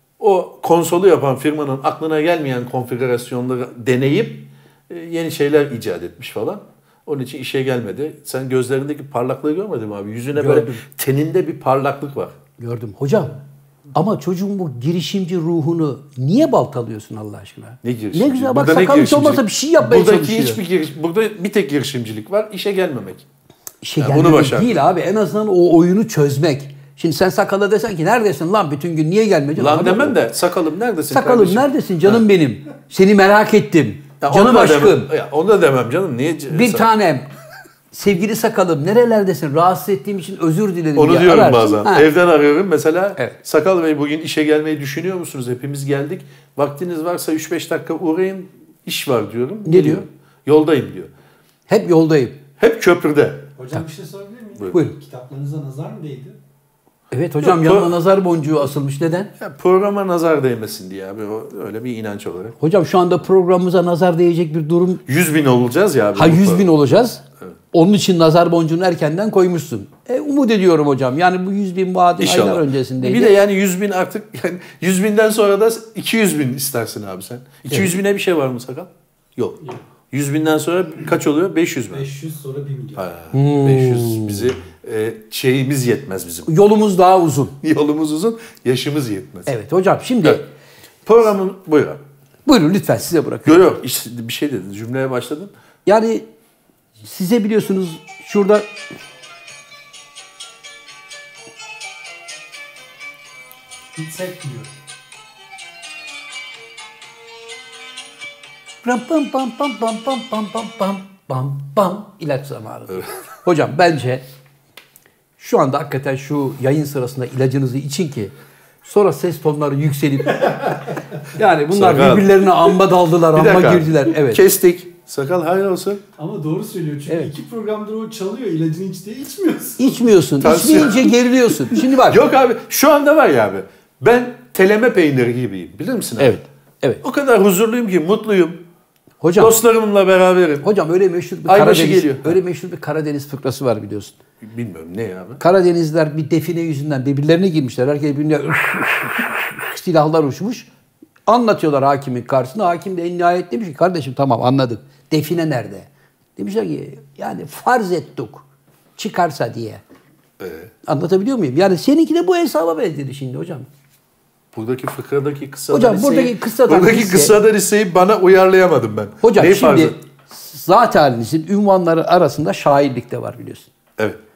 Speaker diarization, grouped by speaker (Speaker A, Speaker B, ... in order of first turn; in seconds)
Speaker A: 0.2-12.3, 17.8-23.2, 24.0-24.8, 29.6-32.2, 34.2-36.9, 40.9-51.1, 52.6-53.5, 57.4-57.9, 59.4-62.5, 65.1-66.7, 72.2-82.1, 83.0-86.5, 87.6-89.5, 91.0-92.0, 93.5-95.5, 121.7-122.7, 123.3-126.0, 130.4-136.3, 137.0-138.6, 139.4-140.7, 141.5-142.4, 144.4-145.4, 160.4-160.7, 164.5-170.0
Speaker B: 10.3-10.8, 12.6-13.4, 13.9-20.6, 23.8-30.1, 31.1-35.1, 36.5-37.3, 37.9-42.1, 49.6-50.0, 51.7-52.4, 57.1-59.3, 62.6-65.0, 66.2-73.4, 83.3-84.5, 86.5-87.6, 89.5-90.4, 92.5-93.7, 95.8-96.3, 97.0-98.7, 108.8-114.2, 115.4-118.3, 118.8-124.4, 127.1-127.3, 129.8-132.2, 136.2-137.0, 139.2-139.5, 140.6-144.2, 145.4-150.7, 151.3-158.4, 159.0-159.8, 160.8-163.7, 165.7-167.4, 169.2-173.7
Speaker C: 53.6-56.4, 81.9-83.1, 104.0-104.7, 126.2-130.0